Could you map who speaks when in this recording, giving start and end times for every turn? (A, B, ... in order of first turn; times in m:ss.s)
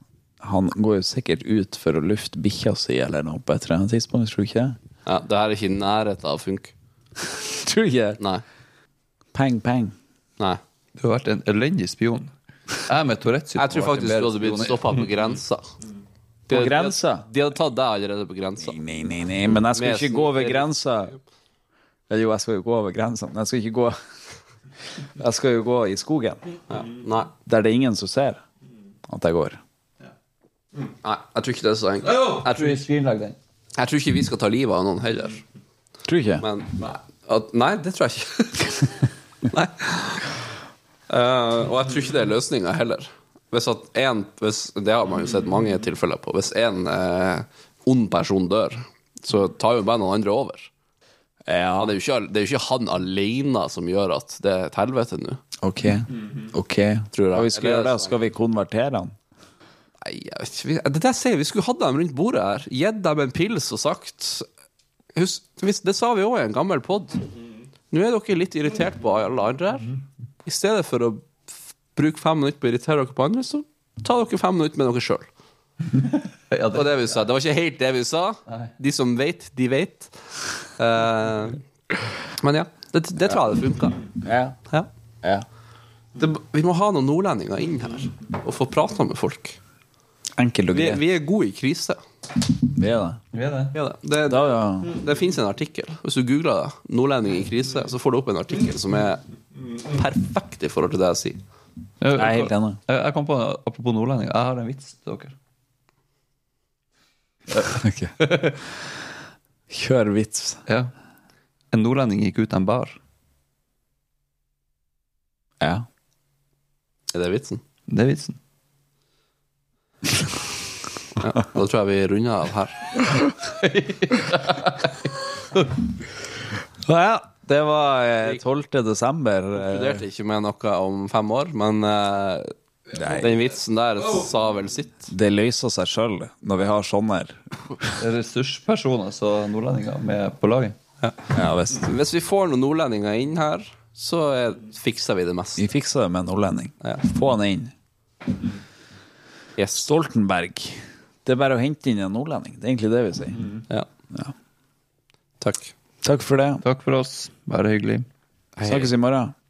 0:00.4-0:04.8 A
0:05.0-0:06.7 B
0:07.3-0:08.2 A
0:09.3-0:09.9 A
0:11.0-0:15.0 C
0:13.5-0:15.6 B
0:16.5-0:18.8 B
0:16.5-0:17.2 A
0:18.6-0:21.1 A
0:19.7-0:20.7 B
0:22.1-0:23.9 A
0:25.2-0:26.4 A
0:26.7-0:27.3 B
0:27.5-0:28.4 A
0:29.1-0:29.6 A
0:31.0-0:32.8 B
0:32.0-0:33.4 C
0:33.8-0:35.4 B
0:36.1-0:36.4 A
0:36.4-0:40.3 B
0:41.1-0:50.7 B
0:51.4-0:51.9 A
0:51.8-0:55.4 B
0:55.6-0:59.1 A
0:57.1-0:58.2 B
1:00.0-1:04.4 B
1:05.1-1:07.3 B
1:07.9-1:11.3 B
1:11.9-1:15.3 B
1:16.5-1:17.0 C
1:16.7-1:20.1 B
1:20.8-1:21.6 B
1:22.4-1:24.0 B
1:24.2-1:24.6 A
1:26.2-1:29.6 B
1:30.4-1:31.0 A
1:30.7-1:32.0 B
1:32.7-1:33.2 A
1:33.3-1:33.7 C
1:33.7-1:39.2 B
1:34.3-1:35.0 A
1:39.8-1:41.4 B
1:42.0-1:45.3 C
1:42.1-1:42.8 A
1:47.5-1:48.6 A
1:48.2-1:48.5 C
1:49.7-1:50.6 A
1:51.7-1:53.0 C
1:55.6-1:55.8 A
1:57.1-1:57.6 B
1:57.9-1:58.4 C
2:01.2-2:02.9 B
2:03.2-2:05.6 C
2:06.8-2:10.0 A
2:09.5-2:15.1 B
2:12.9-2:13.4 A
2:15.1-2:17.8 A
2:18.0-2:20.8 C
2:21.0-2:25.7 B
2:21.3-2:21.9 A
2:25.6-2:27.7 A
2:29.6-2:29.9 B
2:29.8-2:33.4 A
2:35.4-2:35.7 B
2:36.0-2:36.6 A
2:36.6-2:38.0 C
2:38.6-2:38.9 B
2:38.6-2:39.3 A